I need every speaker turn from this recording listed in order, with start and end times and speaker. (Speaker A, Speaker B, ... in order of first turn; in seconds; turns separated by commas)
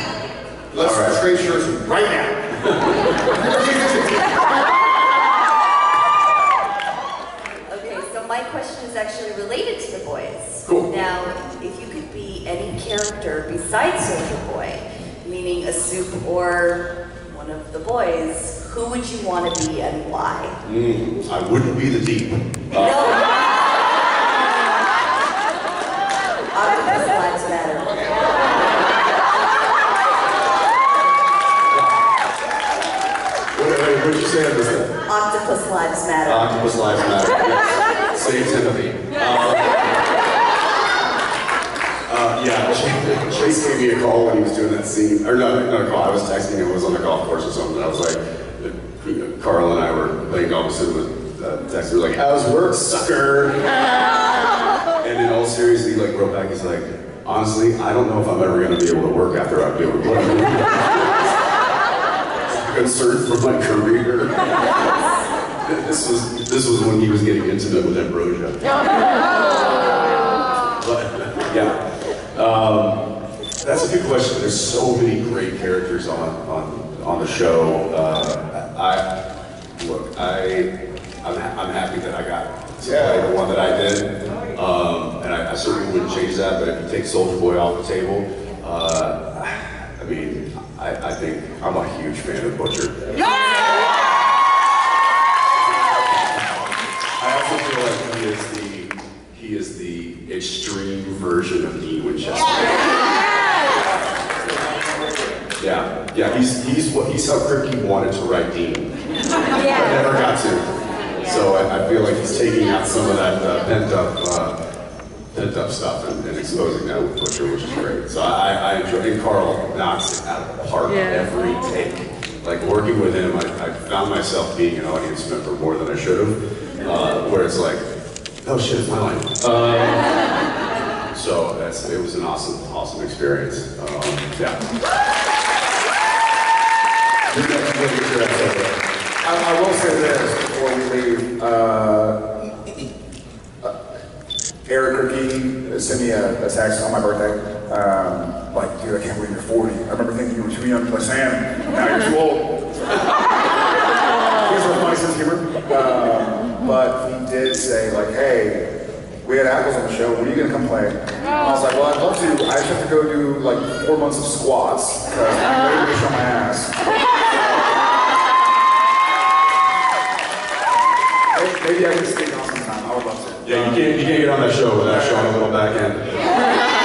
Speaker A: 0.7-2.5, Speaker B: 0.7-1.2, Speaker B: 2.6-3.0, Speaker A: 3.3-4.4, Speaker C: 7.7-20.6, Speaker B: 10.6-10.9, Speaker B: 20.6-23.1, Speaker C: 22.7-23.4, Speaker C: 26.5-28.1, Speaker A: 27.8-28.5, Speaker B: 33.5-35.0, Speaker C: 35.0-36.7, Speaker B: 36.2-40.0, Speaker B: 42.1-53.7, Speaker B: 55.0-61.1, Speaker B: 62.5-64.9, Speaker B: 65.6-68.6, Speaker B: 70.8-71.8, Speaker B: 72.3-73.0, Speaker B: 73.6-79.1, Speaker B: 79.8-80.7, Speaker B: 81.2-93.0, Speaker A: 82.8-83.3, Speaker B: 97.2-103.1, Speaker B: 105.6-108.9, Speaker B: 109.5-114.5, Speaker B: 115.3-127.8, Speaker B: 128.4-130.3, Speaker B: 131.1-134.6, Speaker A: 137.3-138.6, Speaker B: 137.3-138.7, Speaker A: 139.2-142.5, Speaker A: 144.7-152.9, Speaker A: 154.4-166.7, Speaker A: 171.3-174.2, Speaker B: 173.4-176.2, Speaker A: 174.8-175.7